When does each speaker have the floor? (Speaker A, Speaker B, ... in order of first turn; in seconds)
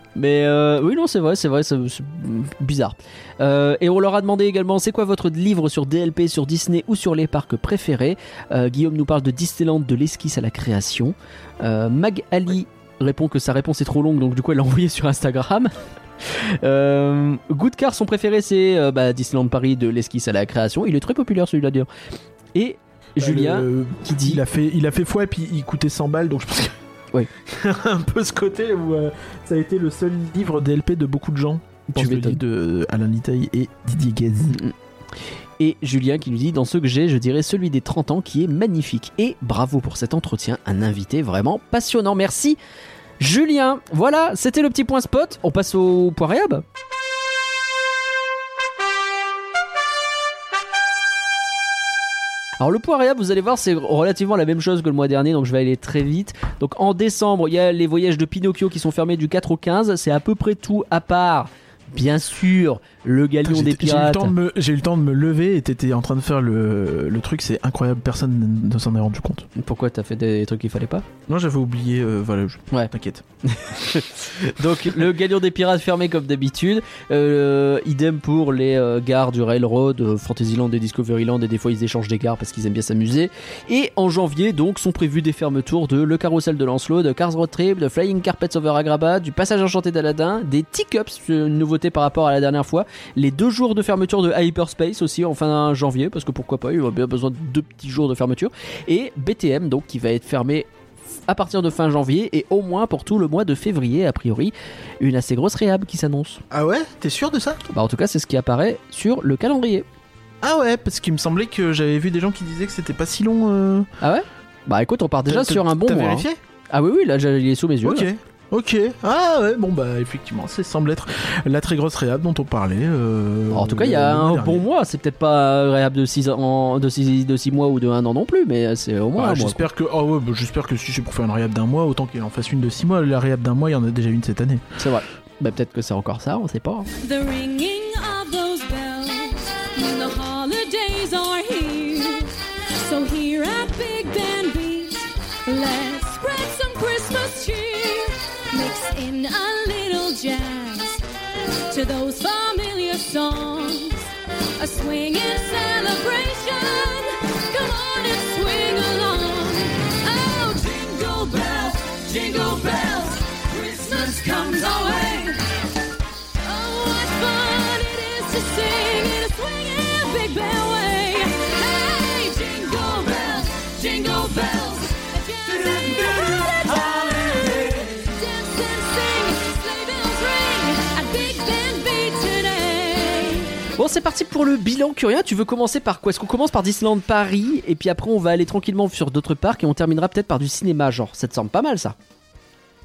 Speaker A: 0.1-21.9, 22.5-24.4, 31.9-32.4, 35.6-42.6, 43.2-46.6, 52.6-64.3, 69.5-71.1, 73.5-100.7, 101.3-106.4, 107.7-109.9, 114.0-118.1, 123.5-129.6, 134.8-136.9, 183.8-192.0
Speaker B: 23.2-26.8, 27.4-34.6, 63.4-69.5, 71.3-73.2, 106.5-107.6, 110.4-113.9, 115.3-116.4, 117.8-124.6, 129.1-134.6
Speaker C: 137.0-151.0, 151.7-165.5, 166.4-183.6